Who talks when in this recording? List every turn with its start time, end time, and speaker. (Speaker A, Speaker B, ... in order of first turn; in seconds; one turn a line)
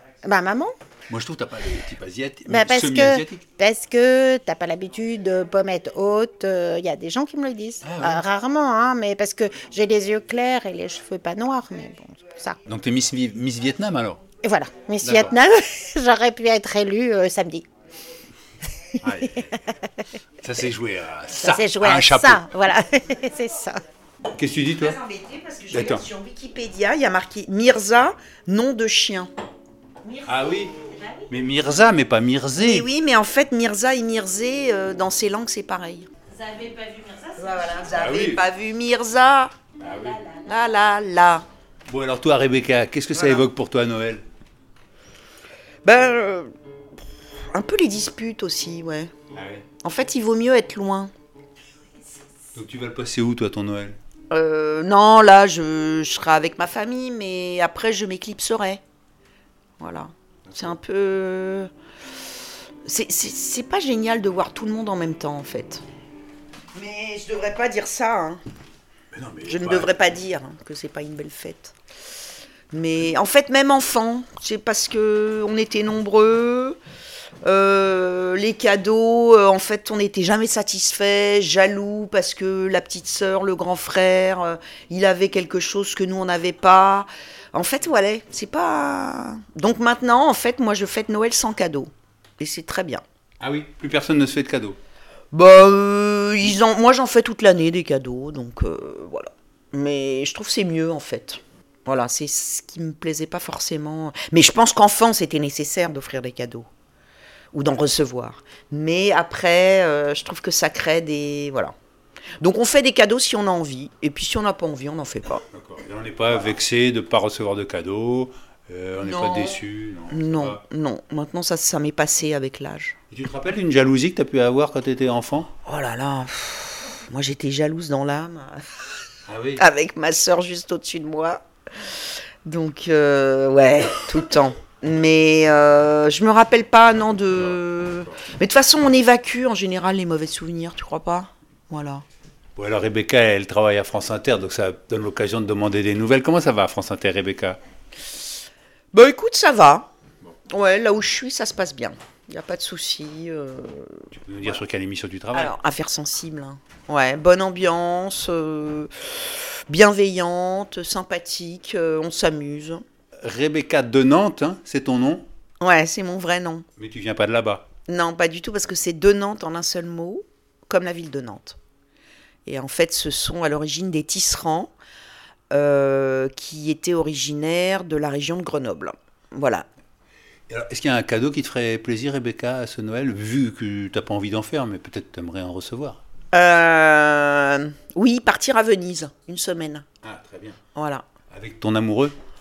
Speaker A: 0.2-0.8
Speaker B: 1.1-3.4
Speaker A: 2.5-12.6
Speaker B: 7.8-8.2
Speaker B: 12.7-14.2
Speaker A: 14.4-17.6
Speaker B: 15.0-15.3
Speaker B: 19.0-19.6
Speaker B: 20.4-22.4
Speaker A: 21.4-23.8
Speaker B: 24.4-25.0
Speaker C: 24.8-29.3
Speaker B: 25.7-26.1
Speaker A: 30.0-30.3
Speaker B: 30.2-30.8
Speaker A: 30.9-31.2
Speaker B: 31.3-32.9
Speaker C: 32.6-36.1
Speaker A: 36.3-37.9
Speaker C: 37.4-39.5
Speaker B: 37.9-38.5
Speaker B: 39.8-40.2
Speaker A: 40.1-40.5
Speaker C: 40.5-41.5
Speaker B: 41.9-44.2
Speaker C: 43.1-43.5
Speaker C: 45.9-46.5
Speaker C: 47.5-49.1
Speaker B: 49.3-49.7
Speaker C: 49.8-51.1
Speaker B: 52.5-54.0
Speaker C: 54.3-58.8
Speaker C: 59.8-61.7
Speaker B: 60.5-60.7
Speaker C: 62.9-65.8
Speaker C: 66.7-68.4
Speaker B: 69.1-69.9
Speaker C: 69.5-71.7
Speaker C: 72.7-76.8
Speaker C: 77.4-93.0
Speaker B: 93.4-94.8
Speaker C: 95.3-106.7
Speaker C: 107.5-111.7
Speaker C: 112.4-115.5
Speaker B: 115.5-120.6
Speaker C: 119.0-123.0
Speaker B: 123.1-125.5
Speaker C: 125.7-128.9
Speaker B: 129.3-129.6
Speaker C: 129.6-142.0
Speaker B: 142.6-147.6
Speaker C: 148.9-149.9
Speaker C: 150.5-154.1
Speaker B: 154.2-155.5
Speaker C: 155.3-162.8
Speaker B: 163.2-165.3
Speaker C: 165.6-166.7
Speaker B: 166.8-167.7
Speaker C: 167.9-171.6
Speaker C: 172.5-174.7
Speaker C: 175.5-179.7
Speaker B: 180.5-186.0
Speaker C: 186.3-189.9
Speaker B: 190.0-190.6
Speaker C: 190.8-191.1
Speaker B: 191.3-192.2